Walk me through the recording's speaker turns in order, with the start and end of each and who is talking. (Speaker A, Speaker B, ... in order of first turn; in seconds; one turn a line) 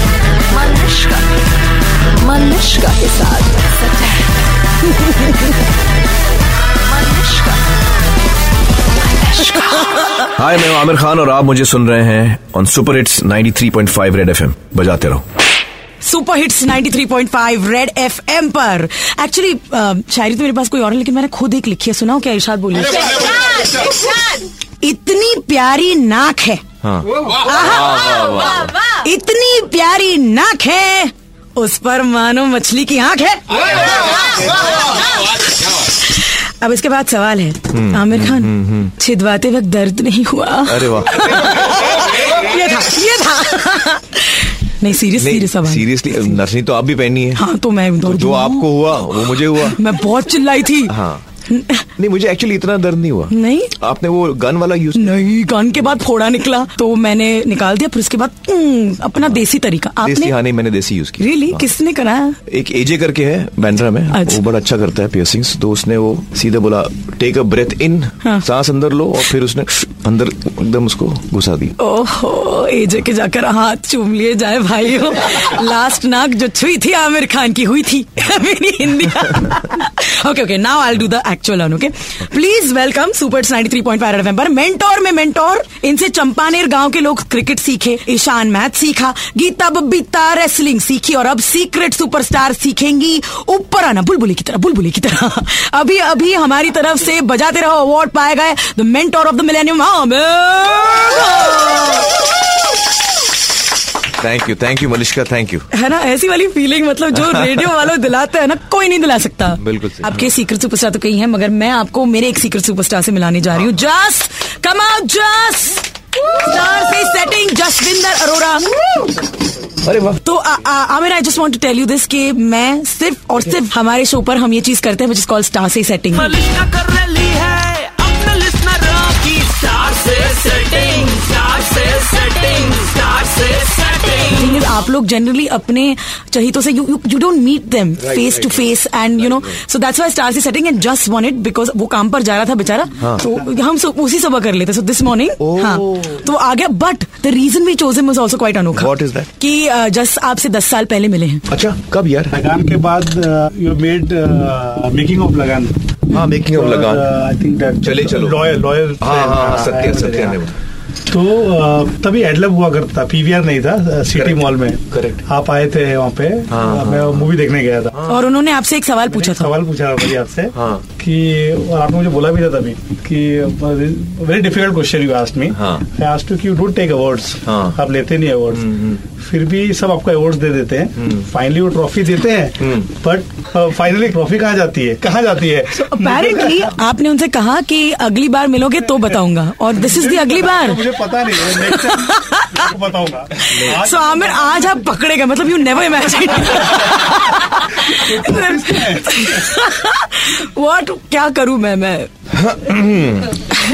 Speaker A: 0.5-1.3
Speaker A: 2.2-4.3
Speaker A: 6.8-7.7
Speaker A: 9.0-9.9
Speaker B: 10.3-15.2
Speaker C: 16.0-26.6
Speaker B: 26.8-28.6
Speaker C: 27.2-46.2
Speaker B: 37.7-38.9
Speaker B: 40.6-41.5
Speaker B: 45.2-47.5
Speaker C: 47.3-51.9
Speaker B: 48.0-49.8
Speaker B: 50.9-51.2
Speaker B: 52.0-55.2
Speaker C: 53.3-53.8
Speaker C: 54.9-60.4
Speaker B: 60.0-61.7
Speaker C: 61.2-62.4
Speaker B: 62.5-71.8
Speaker C: 64.1-64.4
Speaker C: 71.8-102.3
Speaker B: 104.2-105.7
Speaker C: 105.7-119.2
Speaker B: 109.6-110.2
Speaker B: 119.8-120.2
Speaker C: 120.2-126.4
Speaker D: 126.3-134.2
Speaker C: 134.2-151.4
Speaker B: 138.1-138.4
Speaker B: 143.0-143.3
Speaker B: 145.4-146.2
Speaker B: 148.7-149.3
Speaker B: 151.5-152.3
Speaker E: 152.3-160.4
Speaker B: 156.1-157.1
Speaker B: 157.8-160.6
Speaker E: 161.1-168.1
Speaker B: 164.1-165.2
Speaker B: 166.5-167.3
Speaker B: 167.9-168.2
Speaker C: 168.1-169.6
Speaker E: 169.1-186.7
Speaker B: 170.5-170.8
Speaker B: 175.5-175.8
Speaker B: 177.4-177.8
Speaker B: 178.6-179.0
Speaker B: 182.6-182.8
Speaker C: 185.7-192.7
Speaker E: 189.8-194.6
Speaker C: 193.4-202.1
Speaker E: 197.8-199.4
Speaker B: 202.3-203.4